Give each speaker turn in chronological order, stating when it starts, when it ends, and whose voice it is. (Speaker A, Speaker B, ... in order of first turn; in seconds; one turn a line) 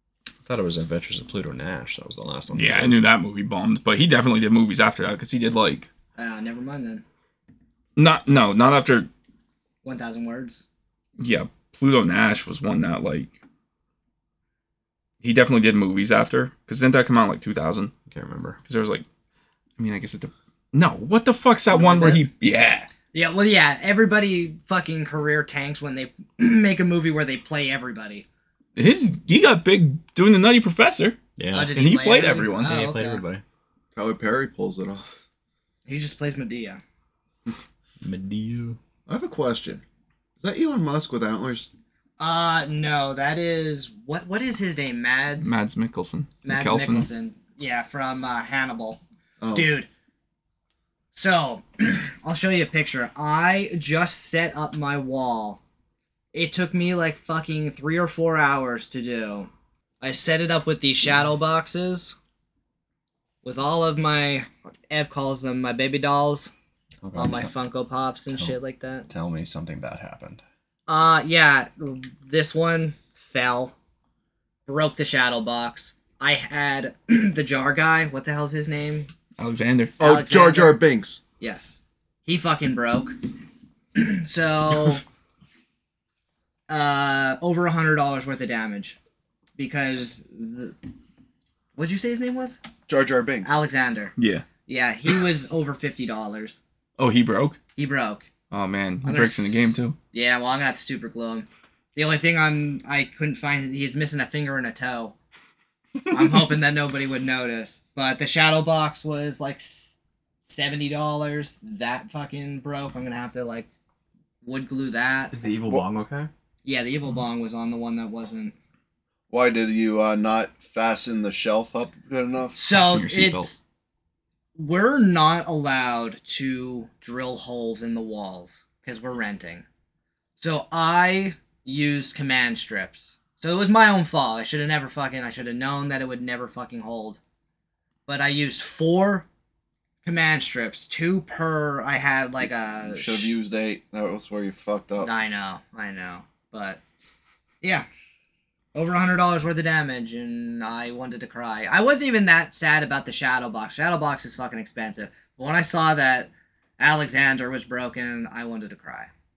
Speaker A: 0.4-3.0
Speaker B: 2.5-5.9
Speaker C: 6.2-7.0
Speaker B: 8.0-9.1
Speaker C: 9.8-10.6
Speaker B: 11.2-13.3
Speaker B: 15.2-17.9
Speaker A: 18.1-18.6
Speaker B: 18.6-19.0
Speaker B: 19.8-22.9
Speaker C: 21.9-22.2
Speaker C: 23.1-28.2
Speaker B: 28.8-31.2
Speaker A: 31.4-31.7
Speaker C: 31.5-33.2
Speaker B: 31.7-32.8
Speaker A: 32.6-33.4
Speaker D: 33.9-35.1
Speaker C: 35.9-36.8
Speaker A: 38.0-38.8
Speaker D: 39.1-39.8
Speaker D: 40.4-41.7
Speaker C: 42.2-45.6
Speaker B: 45.4-47.1
Speaker C: 46.4-49.0
Speaker D: 49.4-49.7
Speaker C: 49.5-49.9
Speaker C: 51.1-55.6
Speaker C: 56.3-59.5
Speaker C: 60.0-62.1
Speaker C: 63.4-66.5
Speaker A: 67.0-67.5
Speaker C: 67.1-69.1
Speaker A: 69.1-70.4
Speaker C: 70.9-73.7
Speaker C: 74.7-79.1
Speaker B: 79.4-80.0
Speaker D: 80.0-81.2
Speaker C: 80.0-80.8
Speaker C: 81.4-83.2
Speaker C: 83.9-85.0
Speaker C: 86.7-89.0
Speaker C: 89.6-90.8
Speaker C: 91.8-92.6
Speaker D: 92.9-93.5
Speaker C: 93.4-94.1
Speaker B: 94.2-94.5
Speaker C: 94.7-96.6
Speaker B: 97.0-97.6
Speaker C: 97.8-98.3
Speaker B: 98.5-100.0
Speaker C: 99.0-105.2
Speaker C: 106.1-113.7
Speaker C: 114.4-115.3
Speaker A: 115.3-116.3
Speaker C: 116.6-118.5
Speaker D: 119.3-122.5
Speaker C: 122.5-123.6
Speaker A: 122.7-123.2
Speaker B: 122.9-123.5
Speaker C: 124.5-129.6
Speaker C: 130.4-137.2
Speaker C: 138.1-139.3
Speaker C: 140.0-143.3
Speaker D: 142.9-145.1
Speaker C: 145.0-146.8
Speaker C: 147.6-147.9
Speaker C: 148.7-159.1